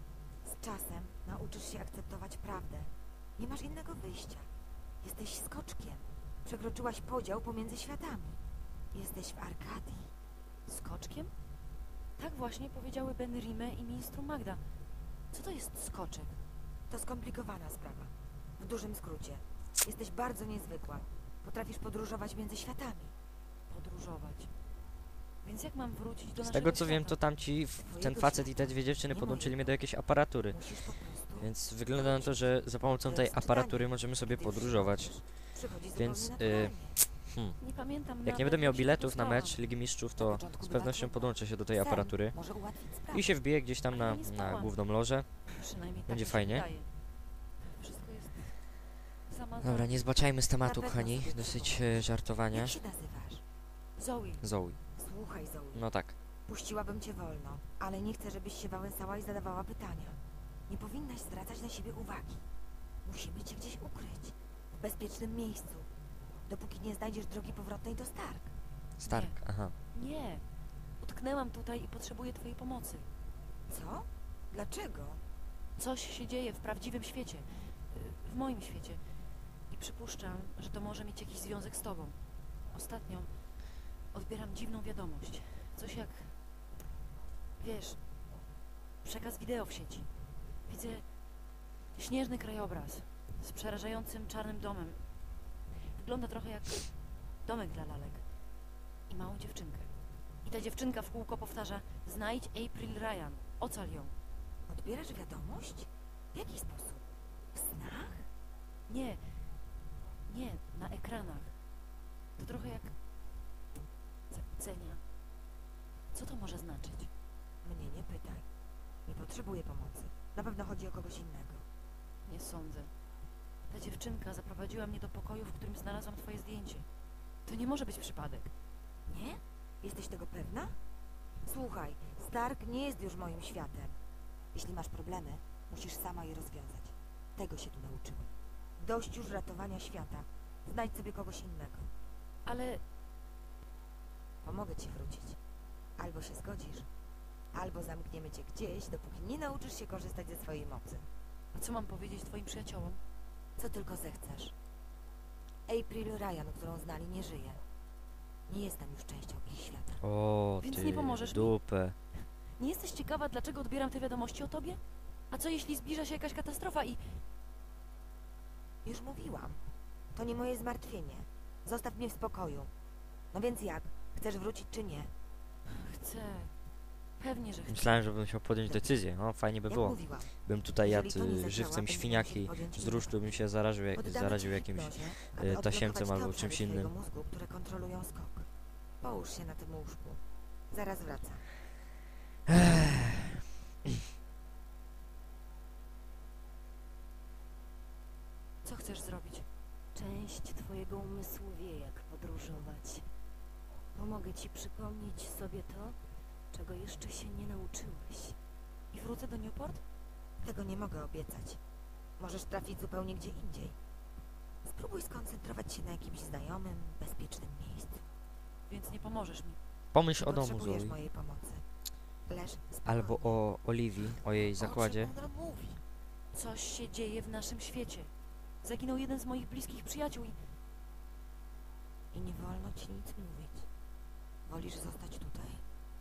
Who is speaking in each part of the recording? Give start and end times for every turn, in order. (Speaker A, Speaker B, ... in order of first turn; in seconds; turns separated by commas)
Speaker A: 0.4-4.5, Speaker A: 5.0-8.4, Speaker A: 8.9-10.1, Speaker B: 10.7-11.3, Speaker B: 12.2-14.6, Speaker B: 15.3-16.4, Speaker A: 16.9-23.1, Speaker B: 23.7-24.5, Speaker B: 25.4-27.2, Speaker C: 26.4-37.6, Speaker A: 27.8-29.8, Speaker A: 30.5-37.0, Speaker B: 37.6-39.6, Speaker C: 38.1-45.5, Speaker A: 40.1-43.3, Speaker B: 43.9-44.8, Speaker B: 45.5-46.9, Speaker C: 46.1-46.7, Speaker B: 47.8-48.6, Speaker B: 49.2-49.9, Speaker C: 49.6-52.8, Speaker A: 50.6-53.4, Speaker B: 54.0-54.4, Speaker C: 54.4-54.8, Speaker A: 55.0-55.9, Speaker C: 55.7-56.1, Speaker A: 56.5-62.5, Speaker A: 63.0-65.9, Speaker A: 66.5-68.5, Speaker C: 69.0-69.7, Speaker B: 69.0-69.4, Speaker B: 69.9-70.4, Speaker B: 71.0-73.1, Speaker A: 73.7-75.2, Speaker B: 75.8-79.1, Speaker B: 79.7-82.2, Speaker B: 82.7-86.3, Speaker B: 87.6-88.0, Speaker B: 89.0-90.1, Speaker B: 90.7-91.1, Speaker B: 91.9-95.0, Speaker B: 95.8-98.2, Speaker B: 99.1-99.9, Speaker B: 100.4-104.1, Speaker A: 104.7-108.3, Speaker B: 108.9-109.5, Speaker B: 110.2-111.5, Speaker B: 112.4-113.0, Speaker B: 114.3-115.0, Speaker B: 116.1-117.1, Speaker A: 117.6-118.4, Speaker A: 119.0-121.6, Speaker B: 122.2-122.9, Speaker B: 123.7-126.9, Speaker B: 127.5-128.5, Speaker A: 129.1-130.8, Speaker A: 131.4-134.0, Speaker A: 134.5-141.9, Speaker B: 142.4-142.8, Speaker A: 144.4-145.4, Speaker A: 146.0-146.9, Speaker A: 147.5-151.1, Speaker B: 151.5-153.0, Speaker A: 153.6-154.5, Speaker A: 155.7-157.6, Speaker A: 158.5-160.0, Speaker C: 160.0-161.9, Speaker B: 160.6-167.2, Speaker A: 168.8-169.6, Speaker A: 170.1-172.7, Speaker A: 173.3-175.1, Speaker B: 175.8-176.5, Speaker B: 177.2-178.0, Speaker C: 177.7-186.9, Speaker A: 178.7-178.9, Speaker A: 179.7-183.2, Speaker A: 183.9-188.5, Speaker A: 189.0-191.5, Speaker B: 198.6-199.4, Speaker D: 199.9-203.1, Speaker D: 203.9-206.0, Speaker D: 206.5-208.4, Speaker B: 208.9-209.8, Speaker A: 210.4-211.6, Speaker A: 212.2-213.8, Speaker A: 214.6-218.0, Speaker B: 218.7-219.6, Speaker C: 219.9-220.9, Speaker A: 220.2-221.6, Speaker A: 222.3-223.4, Speaker C: 222.8-225.1, Speaker A: 224.5-225.8, Speaker B: 226.3-228.1, Speaker B: 228.6-230.4, Speaker A: 232.1-233.7, Speaker A: 234.4-235.6